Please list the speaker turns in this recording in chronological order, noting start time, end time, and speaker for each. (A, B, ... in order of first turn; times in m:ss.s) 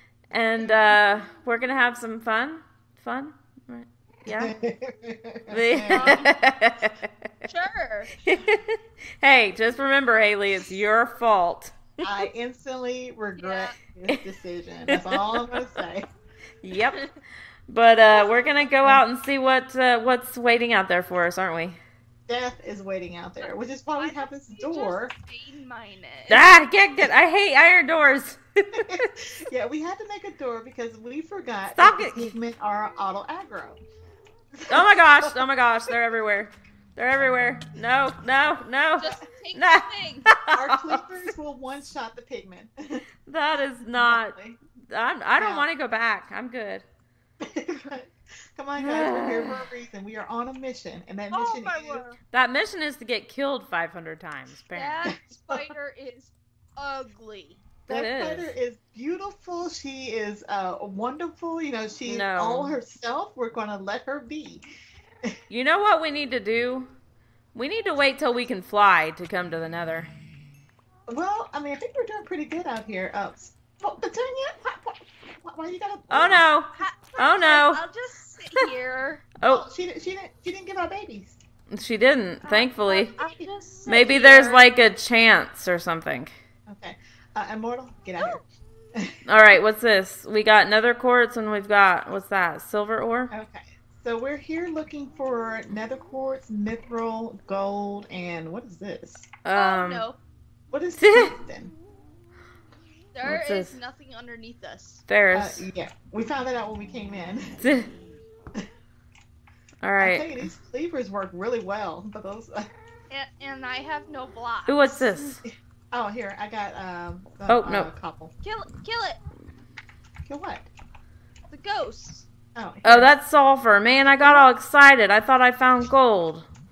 0:00.3-0:04.5 A
0:04.2-0:06.3 B
0:05.5-0:07.5 A
0:05.9-0:06.3 C
0:07.5-0:08.1 C
0:08.2-0:12.1 A
0:12.0-0:16.1 B
0:13.4-0:13.8 C
0:14.9-0:15.6 A
0:16.6-0:17.1 A
0:17.7-0:21.8 A
0:22.3-0:25.1 B
0:24.0-0:26.5 C
0:26.3-0:29.1 A
0:28.8-0:33.8 B
0:31.7-0:32.3 A
0:34.5-0:35.4 B
0:34.7-0:41.0 A
0:39.0-0:40.3 C
0:40.5-0:43.0 B
0:43.3-0:44.4 A
0:44.0-0:44.6 B
0:44.9-0:46.8 A
0:45.4-0:45.7 B
0:47.4-0:52.0 B
0:48.8-0:49.7 A
0:51.3-0:52.2 C
0:52.3-0:55.0 A
0:54.7-0:57.6 C
0:55.1-0:55.7 B
0:57.9-0:58.5 A
0:57.9-1:04.6 B
1:02.1-1:02.8 A
1:05.5-1:06.9 A
1:07.5-1:10.1 A
1:11.1-1:16.4 B
1:16.1-1:17.8 A
1:16.8-1:19.2 C
1:19.4-1:19.7 A
1:19.4-1:21.4 B
1:21.7-1:23.1 A
1:22.4-1:24.7 C
1:23.1-1:23.5 B
1:23.9-1:26.3 A
1:26.7-1:28.4 B
1:28.2-1:28.4 C
1:29.3-1:33.3 A
1:33.3-1:39.3 B
1:39.4-1:40.1 A
1:39.5-1:40.2 C
1:40.7-1:41.8 B
1:41.0-1:41.3 A
1:43.2-1:45.0 C
1:43.2-1:43.7 A
1:45.1-1:45.7 A
1:45.3-1:47.6 B
1:47.6-1:47.9 A
1:49.8-1:50.4 A
1:50.0-1:52.7 B
1:53.1-1:55.1 C
1:54.7-1:55.4 A
1:55.2-1:58.3 B
1:57.5-1:57.9 A
1:58.4-1:59.2 C
2:00.2-2:00.7 B
2:01.5-2:02.3 C
2:02.6-2:03.1 B
2:02.8-2:06.5 A
2:04.2-2:04.5 B